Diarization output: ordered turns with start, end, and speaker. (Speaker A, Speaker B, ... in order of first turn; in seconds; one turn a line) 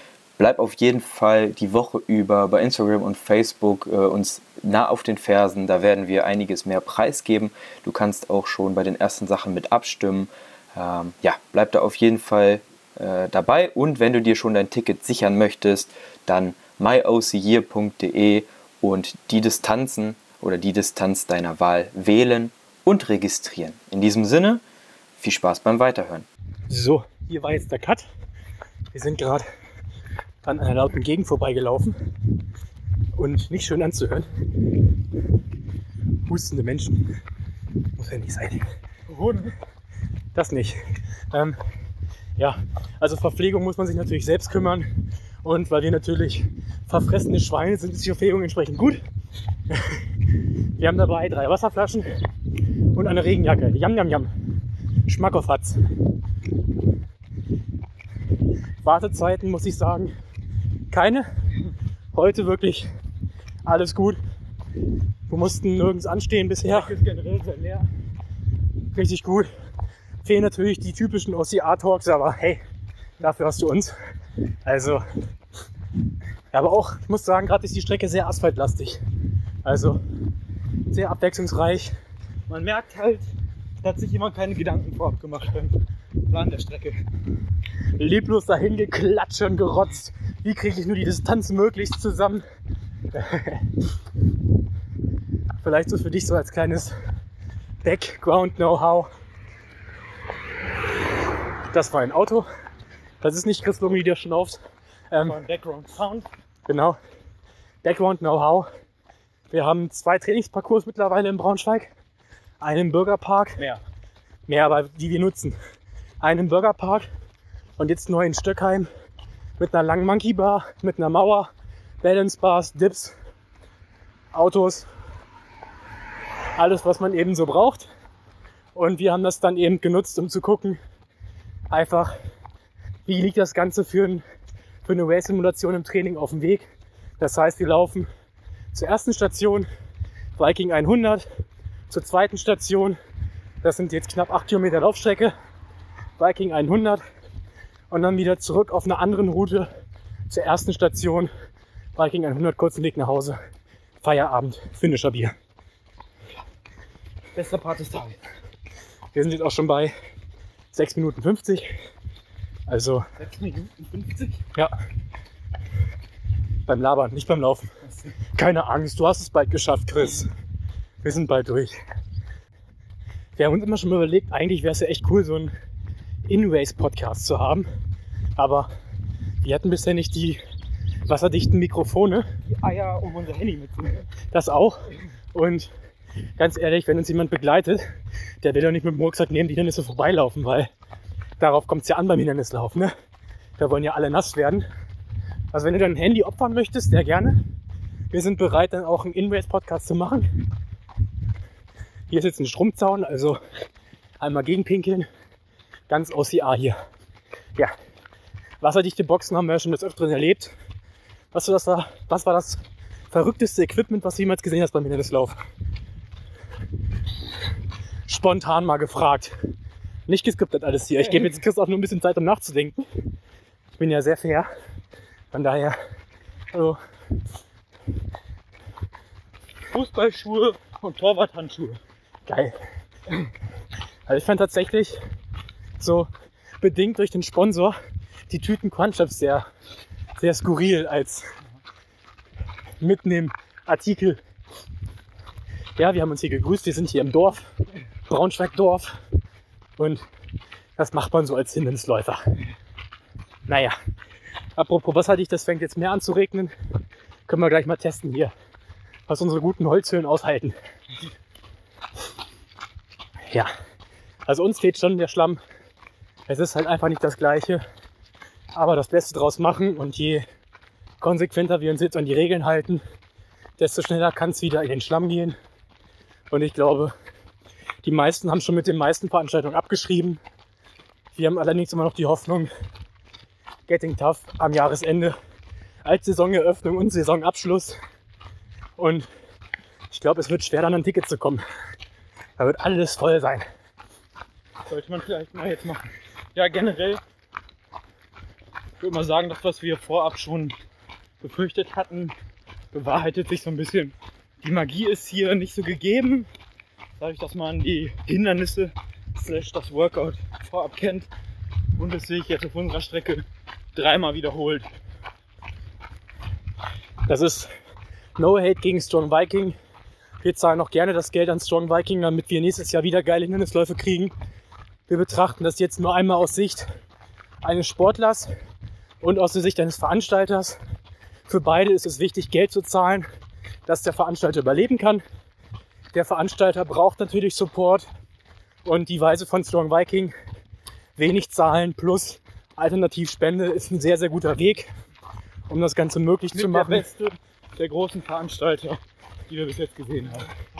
Speaker A: 0.4-24.6
Speaker A: 25.2-26.3
Speaker B: 26.7-28.1
Speaker B: 28.9-29.5
Speaker B: 30.4-32.0
Speaker B: 33.2-34.3
Speaker B: 36.3-37.1
Speaker B: 38.0-38.6
Speaker C: 39.1-39.6
Speaker B: 40.4-40.8
Speaker B: 41.3-41.6
Speaker B: 42.4-44.9
Speaker B: 45.4-49.0
Speaker B: 49.7-50.0
Speaker B: 50.8-52.1
Speaker B: 52.9-54.3
Speaker B: 55.1-55.8
Speaker B: 58.8-60.1
Speaker B: 60.9-61.3
Speaker B: 62.1-62.9
Speaker B: 63.6-64.2
Speaker B: 65.3-66.9
Speaker C: 66.7-67.9
Speaker B: 68.9-69.5
Speaker B: 70.2-72.6
Speaker B: 73.2-73.9
Speaker B: 74.7-75.0
Speaker B: 76.5-79.0
Speaker B: 79.6-80.0
Speaker B: 80.9-81.9
Speaker C: 82.5-83.3
Speaker C: 83.8-87.0
Speaker B: 88.0-92.4
Speaker B: 93.1-93.7
Speaker B: 95.6-96.9
Speaker B: 97.8-99.1
Speaker B: 101.7-102.5
Speaker B: 103.2-104.6
Speaker B: 105.1-105.4
Speaker C: 105.2-106.3
Speaker B: 106.7-107.0
Speaker B: 107.8-108.7
Speaker B: 109.5-111.9
Speaker B: 112.6-113.6
Speaker B: 114.5-115.6
Speaker B: 116.2-117.1
Speaker B: 117.8-118.9
Speaker B: 119.6-121.5
Speaker B: 122.0-123.1
Speaker B: 124.3-124.9
Speaker B: 126.6-127.9
Speaker B: 128.8-130.8
Speaker B: 131.7-132.1
Speaker B: 133.1-134.2
Speaker B: 134.8-136.7
Speaker B: 137.2-138.1
Speaker B: 138.7-139.7
Speaker B: 140.4-141.2
Speaker B: 141.9-143.0
Speaker B: 143.6-145.3
Speaker B: 146.2-147.0
Speaker B: 147.9-149.7
Speaker B: 150.3-151.3
Speaker B: 152.0-153.4
Speaker B: 154.0-155.3
Speaker C: 157.3-158.2
Speaker B: 159.1-159.9
Speaker B: 160.7-161.7
Speaker B: 162.7-163.0
Speaker C: 163.2-164.4
Speaker B: 166.7-167.7
Speaker B: 168.3-170.3
Speaker B: 171.0-171.7
Speaker B: 173.4-175.5
Speaker B: 176.3-177.7
Speaker B: 178.4-178.7
Speaker B: 179.4-180.4
Speaker B: 181.1-182.3
Speaker C: 182.5-184.1
Speaker B: 184.3-185.7
Speaker B: 186.4-187.8
Speaker B: 188.4-190.7
Speaker B: 191.4-192.9
Speaker B: 193.6-194.7
Speaker B: 195.5-197.4
Speaker B: 198.1-200.3
Speaker B: 202.1-203.4
Speaker B: 204.2-205.1
Speaker B: 205.9-206.8
Speaker B: 208.6-210.5
Speaker B: 211.3-215.4
Speaker B: 218.1-219.3
Speaker B: 220.1-222.8
Speaker B: 223.8-224.5
Speaker B: 225.3-225.8
Speaker B: 226.5-226.8
Speaker C: 229.7-231.8
Speaker B: 232.3-232.5
Speaker B: 234.1-235.0
Speaker B: 235.8-236.1
Speaker B: 236.6-237.8
Speaker B: 238.3-239.5
Speaker B: 240.2-241.2
Speaker B: 242.8-244.2
Speaker B: 245.8-247.5
Speaker B: 248.1-249.0
Speaker B: 249.8-250.0
Speaker B: 250.8-252.3
Speaker B: 253.5-253.8
Speaker B: 254.6-256.5
Speaker B: 257.3-258.3
Speaker B: 259.1-260.6
Speaker B: 263.2-263.5
Speaker B: 264.3-265.4
Speaker B: 266.3-267.6
Speaker B: 268.5-270.2
Speaker B: 271.0-272.8
Speaker B: 273.6-275.4
Speaker B: 276.3-276.9
Speaker B: 277.8-280.2
Speaker B: 281.1-282.5
Speaker B: 283.7-285.2
Speaker B: 285.9-287.8
Speaker B: 288.8-289.1
Speaker B: 289.9-291.4
Speaker B: 292.4-293.5
Speaker C: 294.7-297.0
Speaker C: 298.8-300.6
Speaker C: 301.2-302.1
Speaker C: 302.7-306.3
Speaker C: 307.0-311.1
Speaker C: 311.8-313.2
Speaker C: 313.8-314.7
Speaker B: 317.1-317.5
Speaker B: 318.2-319.6
Speaker B: 320.2-324.1
Speaker B: 324.9-326.7
Speaker B: 327.4-328.3
Speaker B: 329.0-330.6
Speaker B: 331.3-333.1
Speaker B: 333.7-335.0
Speaker B: 335.9-337.9
Speaker B: 338.6-340.1
Speaker B: 341.0-344.7
Speaker B: 345.5-346.8
Speaker C: 346.3-350.3